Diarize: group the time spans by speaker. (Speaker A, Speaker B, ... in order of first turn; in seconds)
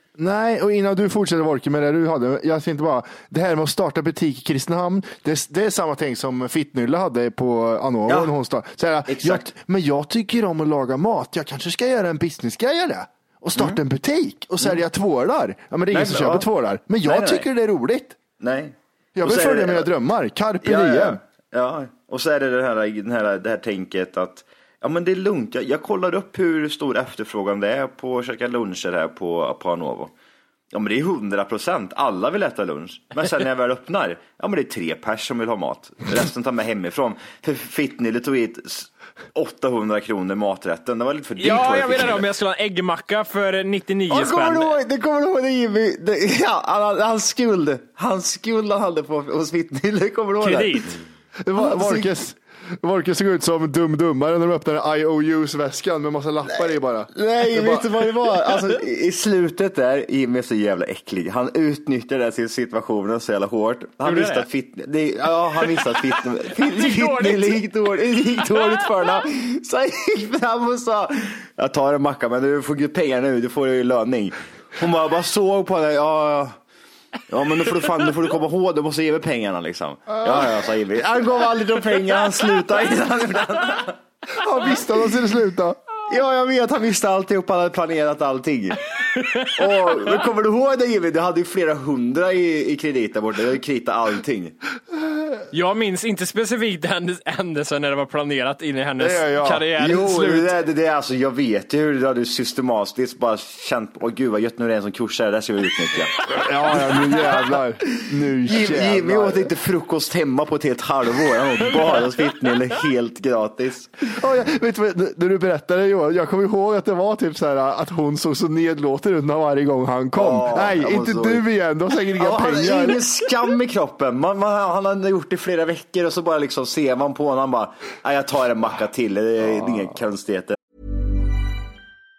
Speaker A: 0.2-18.2, 19.1-21.2, 51.4-58.1, 80.2-80.5, 84.4-85.8, 99.0-99.7, 106.3-109.5, 114.1-123.0
Speaker B: 8.1-8.3, 9.1-9.5, 15.9-16.5, 17.0-17.5, 18.4-19.9, 20.6-30.1, 30.7-42.2, 44.1-51.0, 51.5-52.1, 56.5-76.6, 77.3-84.0, 86.1-88.8, 89.5-94.5, 99.8-106.3, 108.0-114.0, 120.1-121.4, 122.1-130.6
Speaker C: 41.4-44.8, 50.4-51.0, 64.0-64.5, 66.6-67.6, 68.4-68.9, 89.0-90.1, 95.5-100.5